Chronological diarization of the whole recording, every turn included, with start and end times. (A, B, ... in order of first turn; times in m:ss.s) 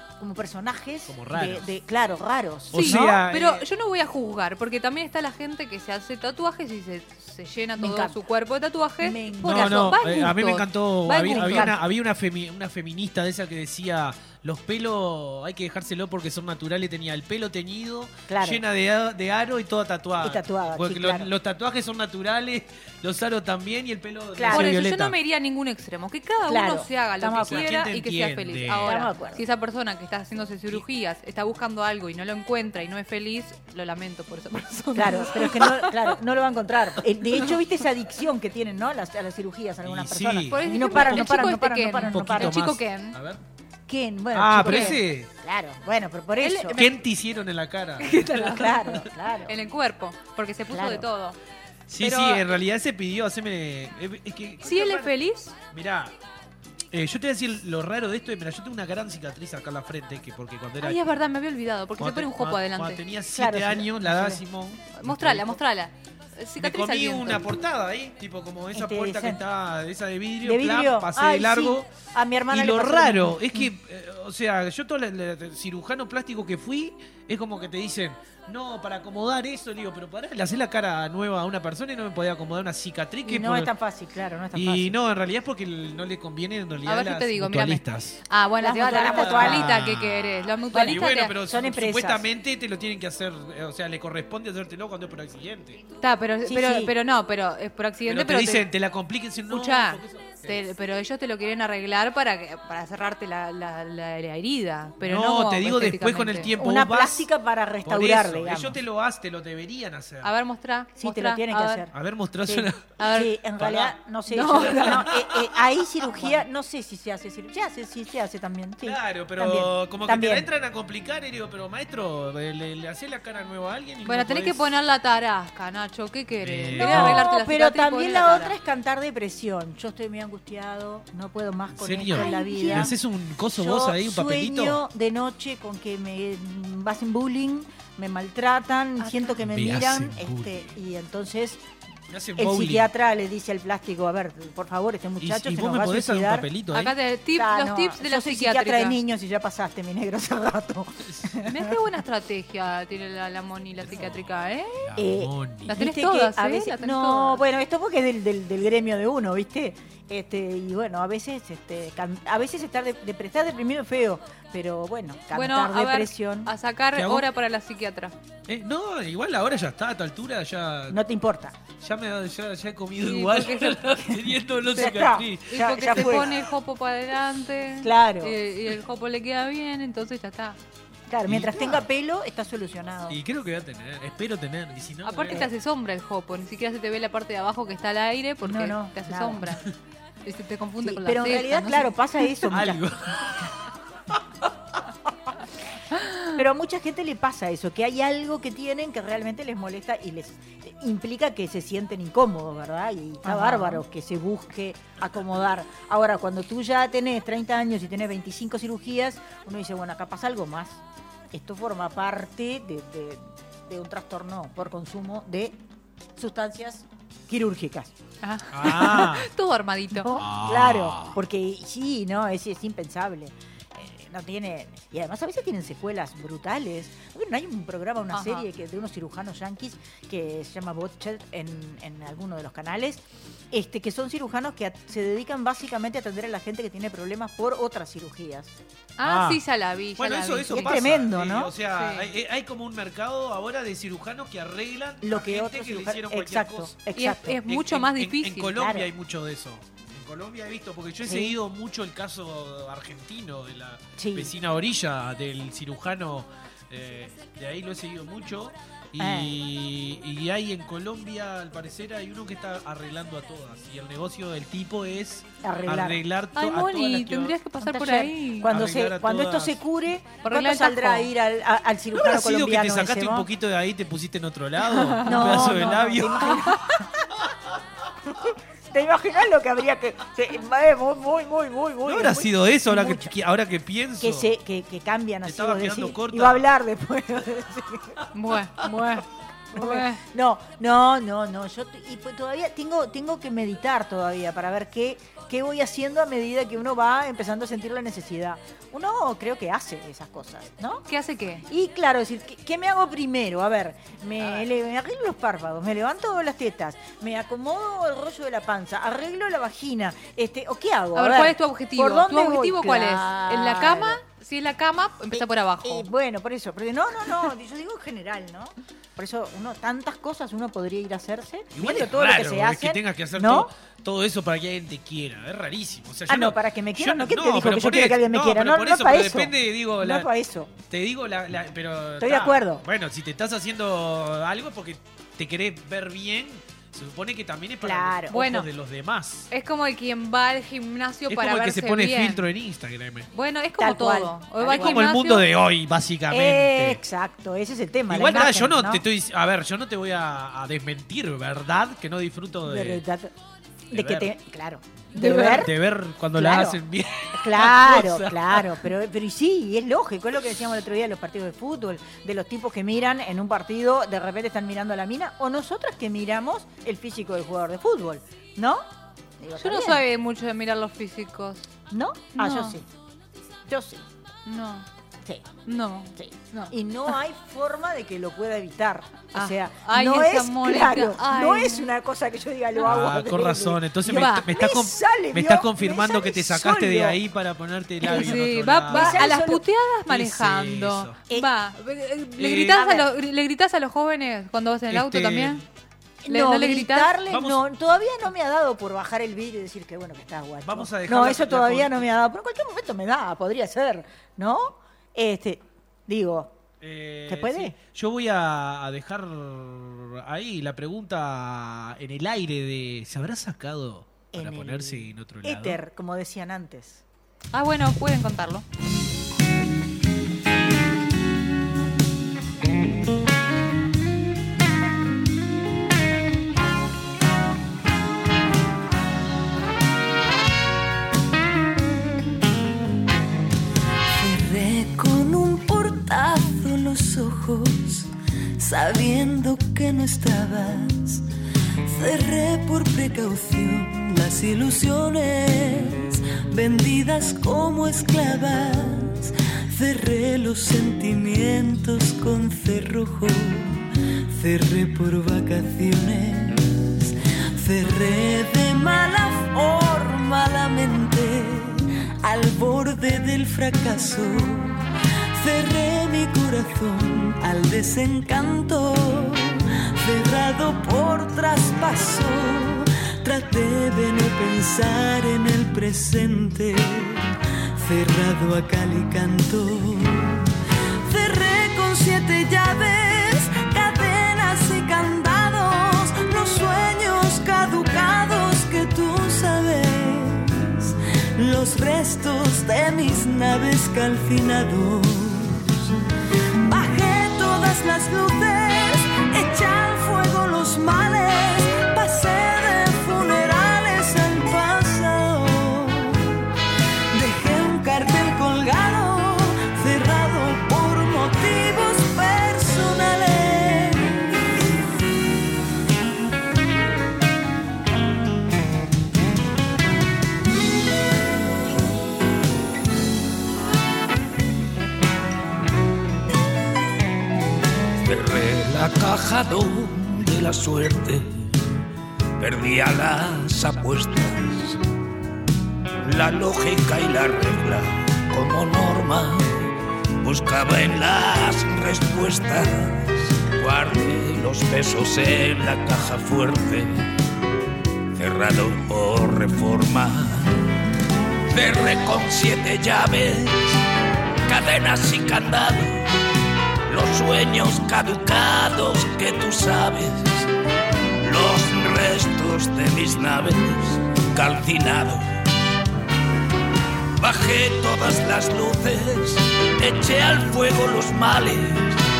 0:00.2-0:03.2 A
0:01.1-0:01.7 B
0:02.7-0:03.6 B
0:02.7-0:11.8 C
0:07.8-0:08.2 A
0:09.0-0:09.9 A
0:09.4-0:25.2 B
0:11.4-0:11.8 A
0:18.3-0:18.6 A
0:20.2-0:21.3 A
0:24.4-0:24.7 A
0:24.5-0:36.1 C
0:26.5-0:27.7 A
0:27.3-0:28.9 B
0:28.8-0:29.4 A
0:34.9-0:42.6 A
0:39.8-0:41.4 B
0:40.5-0:43.2 C
0:42.0-0:43.4 B
0:43.9-0:46.8 A
0:44.3-0:45.3 B
0:44.6-0:45.0 C
0:46.4-0:47.0 C
0:46.7-0:48.7 B
0:48.0-0:51.4 C
0:48.3-0:49.5 A
0:50.7-0:51.0 A
0:51.9-0:55.1 B
0:52.0-0:52.5 C
0:54.6-0:55.5 C
0:55.7-0:56.1 B
0:56.9-1:01.0 B
1:00.8-1:03.0 C
1:02.0-1:05.6 B
1:03.3-1:04.4 A
1:04.9-1:07.4 C
1:06.6-1:11.9 B
1:08.7-1:09.4 A
1:10.4-1:13.6 A
1:12.5-1:23.7 B
1:23.2-1:25.0 A
1:24.5-1:28.2 B
1:26.8-1:31.3 C
1:28.6-1:29.8 A
1:28.8-1:35.8 B
1:30.7-1:32.3 A
1:36.0-1:38.7 C
1:36.4-1:36.9 A
1:38.0-1:40.7 B
1:39.5-1:46.5 C
1:45.0-1:47.3 B
1:46.6-1:48.8 A
1:47.8-1:50.3 B
1:50.2-1:51.8 C
1:51.0-1:51.9 A
1:51.9-1:52.9 B
1:52.4-2:00.5 A
1:53.0-1:53.4 C
1:53.6-1:54.0 B
1:54.3-1:55.1 C
1:54.6-1:55.5 B
1:58.8-2:04.6 B
2:04.0-2:08.5 C
2:06.4-2:07.3 B
2:06.8-2:12.9 A
2:11.8-2:14.8 B
2:12.1-2:12.9 C
2:13.5-2:21.6 A
2:19.0-2:19.4 C
2:19.4-2:20.8 B
2:22.1-2:22.9 B
2:22.4-2:26.5 A
2:25.2-2:26.9 B
2:26.7-2:29.0 C
2:27.4-2:31.5 A
2:31.0-2:31.3 B
2:31.4-2:34.9 C
2:33.8-2:34.3 B
2:34.8-2:35.8 B
2:35.0-2:46.5 A
2:35.7-2:37.4 C
2:45.3-2:48.1 C
2:46.9-2:47.3 B
2:48.5-2:51.0 B
2:50.9-2:51.6 A
2:51.8-2:56.4 B
2:53.0-2:54.0 C
2:54.7-2:56.3 A
2:55.5-3:00.6 C
2:57.8-2:58.3 A
3:01.1-3:03.2 A
3:01.2-3:01.8 B
3:03.1-3:05.5 B
3:05.0-3:09.7 C
3:08.4-3:09.5 A
3:10.2-3:12.5 C
3:10.8-3:12.8 A
3:12.5-3:13.5 B
3:16.3-3:30.8 A
3:23.2-3:23.8 C
3:31.3-3:35.6 A
3:36.2-3:37.9 A
3:38.2-3:40.1 C
3:38.5-3:39.3 B
3:40.0-3:58.6 A
3:40.1-3:41.2 B
3:48.1-3:48.4 C
3:59.0-4:00.8 C
3:59.0-3:59.4 B
4:00.0-4:06.8 B
4:00.5-4:01.5 A
4:01.7-4:02.1 C
4:05.0-4:07.4 A
4:07.0-4:08.6 C
4:07.4-4:27.4 B
4:08.5-4:08.9 A
4:11.0-4:11.4 A
4:14.0-4:14.3 A
4:19.0-4:19.3 A
4:25.4-4:26.0 A
4:26.4-4:28.5 C
4:27.6-4:33.3 A
4:28.4-4:29.6 B
4:30.2-4:31.1 C
4:31.9-4:36.4 B
4:34.7-4:35.8 C
4:35.0-4:36.8 A
4:38.1-4:43.1 A
4:41.8-4:44.3 B
4:44.0-4:48.0 A
4:45.2-4:46.4 B
4:48.1-4:50.0 C
4:49.5-5:00.8 A
5:00.9-5:01.4 C
5:01.5-5:14.0 A
5:10.9-5:15.9 C
5:15.1-5:23.5 A
5:21.5-5:30.1 B
5:26.1-5:30.5 A
5:30.7-5:39.3 B
5:32.0-5:32.6 A
5:37.6-5:38.2 A
5:38.1-5:38.5 C
5:39.3-5:42.2 C
5:41.1-5:43.1 B
5:43.1-5:45.3 C
5:43.6-5:44.9 A
5:44.4-5:46.8 B
5:46.1-5:48.8 A
5:47.9-5:52.8 B
5:52.4-5:53.1 A
5:53.7-5:55.5 A
5:53.7-5:54.1 B
5:54.9-5:58.6 B
5:56.2-5:56.6 A
5:57.1-6:08.6 A
6:09.2-6:09.8 A
6:09.4-6:11.5 C
6:11.7-6:12.6 A
6:12.1-6:12.6 C
6:13.5-6:13.8 A
6:14.2-6:14.7 C
6:15.4-6:16.9 C
6:16.0-6:27.0 A
6:19.1-6:21.7 C
6:22.6-6:29.1 B
6:23.9-6:24.2 C
6:27.8-6:29.4 A
6:27.8-6:35.4 C
6:29.9-6:31.0 B
6:32.2-6:32.7 B
6:32.5-6:32.8 A
6:34.7-6:35.4 B
6:36.0-6:46.3 A
6:36.1-6:37.0 C
6:37.1-6:37.4 B
6:40.4-6:41.9 B
6:46.6-6:55.6 B
6:47.1-6:47.5 A
6:54.1-6:56.8 A
6:57.3-6:58.4 C
7:14.0-7:17.8 D
7:18.4-7:21.0 D
7:21.7-7:29.0 D
7:29.6-7:33.6 D
7:34.2-7:36.4 D
7:37.4-7:41.5 D
7:42.0-7:44.5 D
7:45.2-7:49.1 D
7:49.8-7:56.9 D
7:57.6-8:00.1 D
8:00.9-8:15.2 D
8:16.4-8:25.9 D
8:26.9-8:33.8 D
8:47.8-8:51.3 E
8:52.2-8:54.6 E
8:55.8-8:59.5 E
9:00.0-9:06.8 E
9:07.9-9:10.3 E
9:11.3-9:13.6 E
9:14.3-9:15.8 E
9:16.7-9:20.3 E
9:21.0-9:25.0 E
9:27.0-9:31.8 E